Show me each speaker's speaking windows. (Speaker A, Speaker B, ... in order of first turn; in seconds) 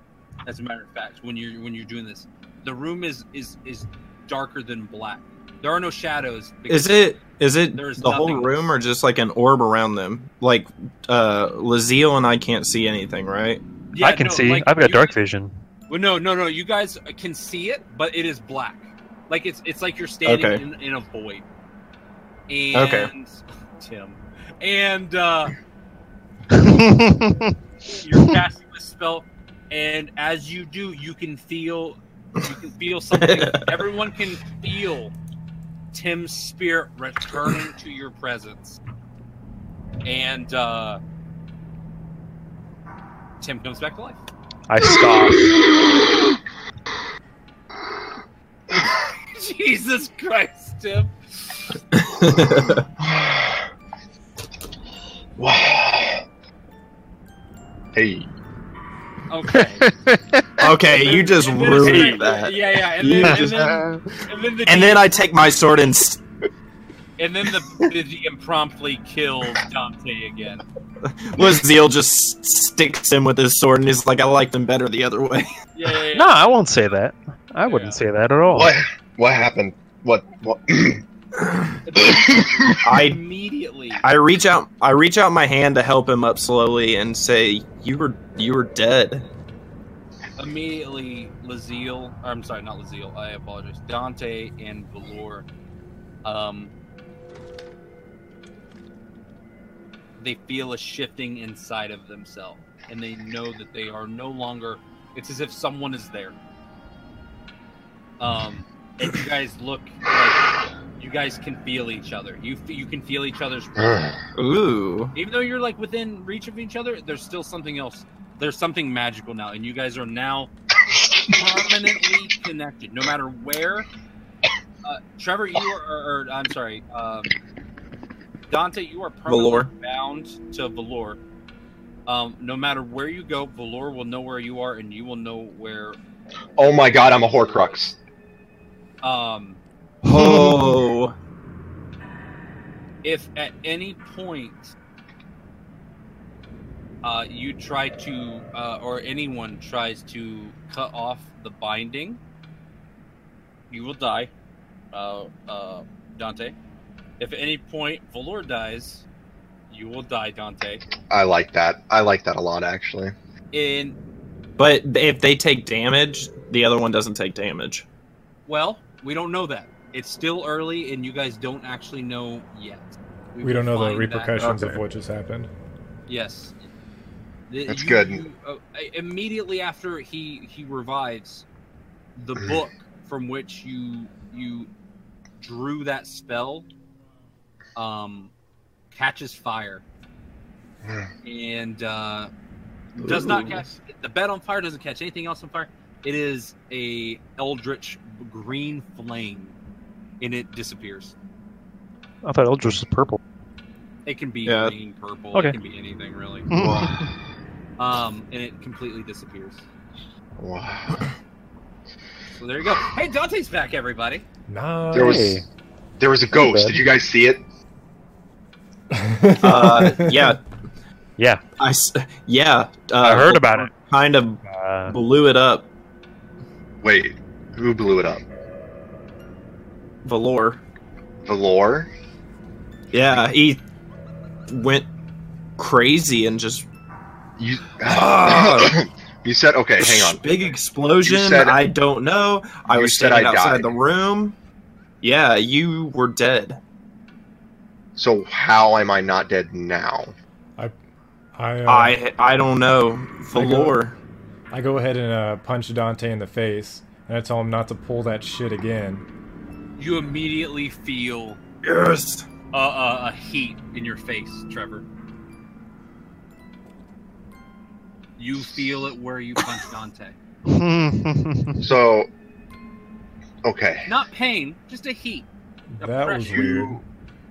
Speaker A: 0.5-7.1, 7.7-8.7, 13.9-15.1, 15.9-21.4, 22.5-25.6, 27.9-35.1, 35.9-38.8, 40.0-41.0, 43.4-44.2, 49.3-51.1, 59.3-59.9, 60.9-65.1, 67.2-70.6, 75.7-77.0, 77.6-78.0, 81.8-84.0, 90.3-95.5, 96.2-96.7, 100.2-106.3, 108.2-114.1, 115.1-120.5, 121.3-123.9, 124.8-127.3, 128.5-131.2, 132.1-136.0, 136.6-137.8, 139.0-139.6, 143.0-144.7, 147.0-152.2, 153.7-154.3, 154.9-156.5, 157.2-159.0, 159.7-160.8, 163.5-164.0, 168.4-174.4, 176.1-176.7, 177.5-181.4, 182.2-184.7, 185.4-186.7, 187.8-188.3, 188.9-189.8, 191.2-192.3, 192.9-199.6, 200.2-201.1, 204.1-206.5, 207.8-209.7, 212.3-214.2, 259.8-261.4, 262.5-264.9, 268.2-270.2, 273.9-275.3, 275.8-276.8
Speaker B: 6.7-13.6, 20.2-20.6, 22.7-23.1, 33.1-33.9, 51.9-52.9, 60.6-63.8, 64.7-66.2, 71.0-75.5, 82.8-83.2, 84.0-89.2, 114.3-115.1, 129.3-129.7, 140.0-141.1, 164.6-167.8, 174.4-174.8, 193.0-193.7, 204.4-204.7, 219.4-220.4, 221.6-225.7, 230.0-230.6, 232.9-233.6, 234.5-234.9, 235.6-236.7, 237.8-238.8, 239.8-244.3, 245.0-246.6, 251.7-253.9, 261.6-262.3
Speaker C: 14.0-15.5, 26.6-27.5, 44.7-45.5, 59.5-60.7, 61.7-62.2, 63.2-64.0, 76.1-78.7, 140.1-140.8, 202.2-203.2, 206.5-207.1, 214.9-215.4, 216.3-216.8, 223.0-223.7, 224.5-224.9, 270.4-271.6
Speaker D: 53.0-53.6, 55.4-56.2, 57.9-58.3, 78.5-81.0, 136.6-137.9, 161.1-163.1, 177.7-178.2, 190.8-191.1, 206.6-206.9, 210.4-211.1, 214.9-215.4, 216.0-217.4, 226.8-228.2, 231.2-231.9, 237.4-240.2, 241.0-241.6, 242.7-243.7, 247.9-250.1, 271.6-272.1, 273.4-273.9
Speaker E: 173.4-175.5, 214.5-215.3, 218.9-220.3, 251.3-251.9, 253.3-253.7, 254.5-259.0, 275.7-276.8